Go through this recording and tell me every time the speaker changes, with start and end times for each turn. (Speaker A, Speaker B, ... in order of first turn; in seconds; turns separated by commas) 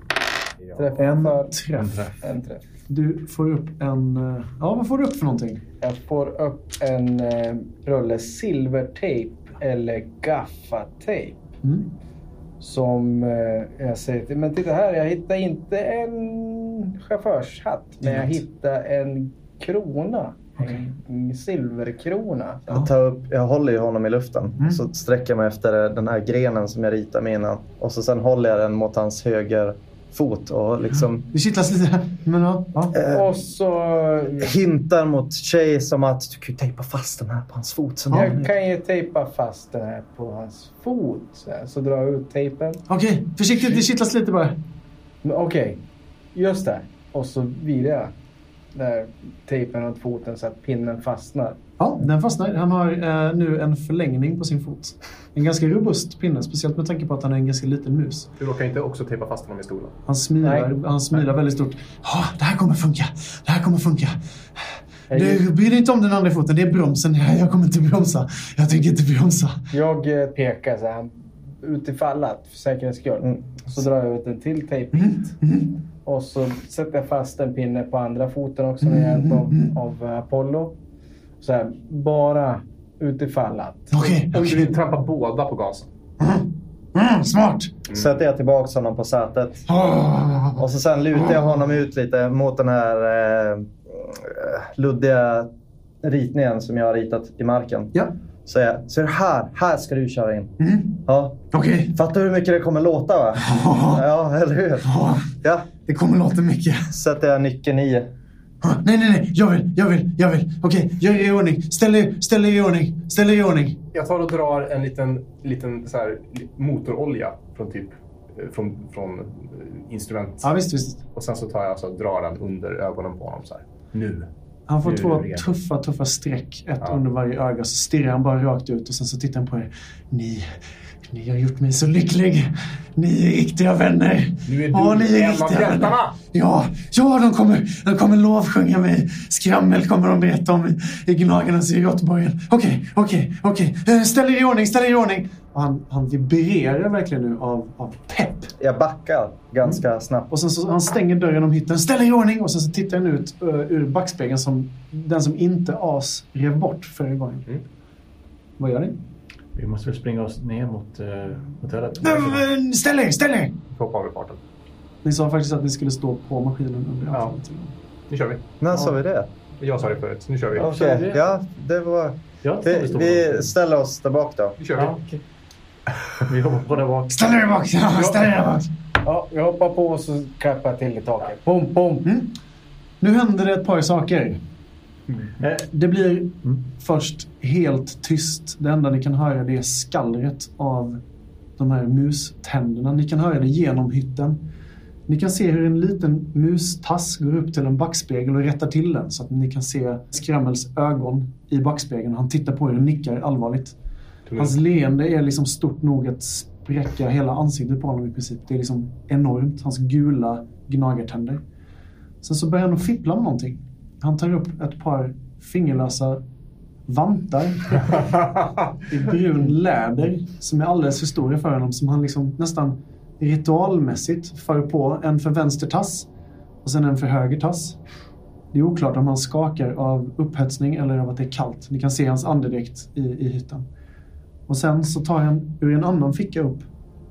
Speaker A: 0.7-1.6, Speaker B: 1.0-2.1, Speaker C: 1.8-2.1, Speaker A: 2.2-2.6, Speaker B: 2.9-5.6, Speaker A: 5.8-11.4, Speaker B: 11.6-11.9, Speaker A: 12.6-22.7, Speaker B: 20.6-20.9, Speaker D: 22.7-31.3, Speaker B: 30.9-33.0, Speaker D: 32.9-33.3, Speaker A: 33.0-34.6, Speaker D: 34.4-38.5, Speaker A: 38.1-42.8, Speaker B: 42.9-44.6, Speaker A: 45.2-45.8, Speaker A: 46.3-48.1, Speaker A: 48.7-51.6, Speaker B: 51.8-58.3, Speaker E: 58.4-60.0, Speaker B: 60.1-69.5, Speaker A: 60.4-60.7, Speaker D: 65.1-65.4, Speaker A: 69.7-75.3, Speaker B: 75.0-75.7, Speaker A: 76.0-80.8, Speaker B: 78.8-79.7, Speaker A: 81.4-83.9, Speaker B: 83.9-84.7, Speaker E: 84.0-85.9, Speaker B: 86.2-87.7, Speaker D: 87.9-89.7, Speaker B: 89.7-90.7, Speaker D: 90.6-95.5, Speaker D: 96.0-105.7, Speaker B: 100.6-101.0, Speaker B: 101.5-102.0, Speaker B: 103.4-104.0, Speaker B: 104.8-105.3, Speaker B: 105.8-106.9, Speaker D: 106.9-108.1, Speaker B: 108.6-113.8, Speaker E: 113.9-120.5, Speaker B: 120.4-121.0, Speaker E: 121.1-124.3, Speaker B: 124.7-130.5, Speaker E: 124.8-125.5, Speaker B: 131.1-148.5, Speaker E: 134.5-136.2, Speaker D: 148.6-150.3, Speaker B: 149.6-157.5, Speaker B: 158.6-159.0, Speaker C: 159.6-162.5, Speaker B: 162.0-163.5, Speaker E: 163.7-164.4, Speaker B: 165.0-167.8, Speaker E: 168.1-168.6, Speaker D: 168.6-169.3, Speaker E: 169.6-170.7, Speaker D: 170.6-174.6, Speaker A: 170.6-171.2, Speaker C: 172.4-173.5, Speaker E: 174.6-174.9, Speaker C: 174.8-175.2, Speaker C: 176.2-177.3, Speaker B: 177.1-178.7, Speaker A: 179.0-182.1, Speaker B: 182.1-182.3, Speaker B: 183.0-184.4, Speaker C: 185.3-185.7, Speaker B: 185.6-191.0, Speaker B: 191.6-194.4, Speaker B: 195.1-203.8, Speaker E: 204.3-204.6, Speaker B: 204.4-211.4, Speaker B: 212.2-216.2, Speaker B: 216.9-218.1, Speaker B: 218.9-226.1, Speaker B: 226.6-227.8, Speaker B: 228.5-233.7, Speaker B: 234.5-236.7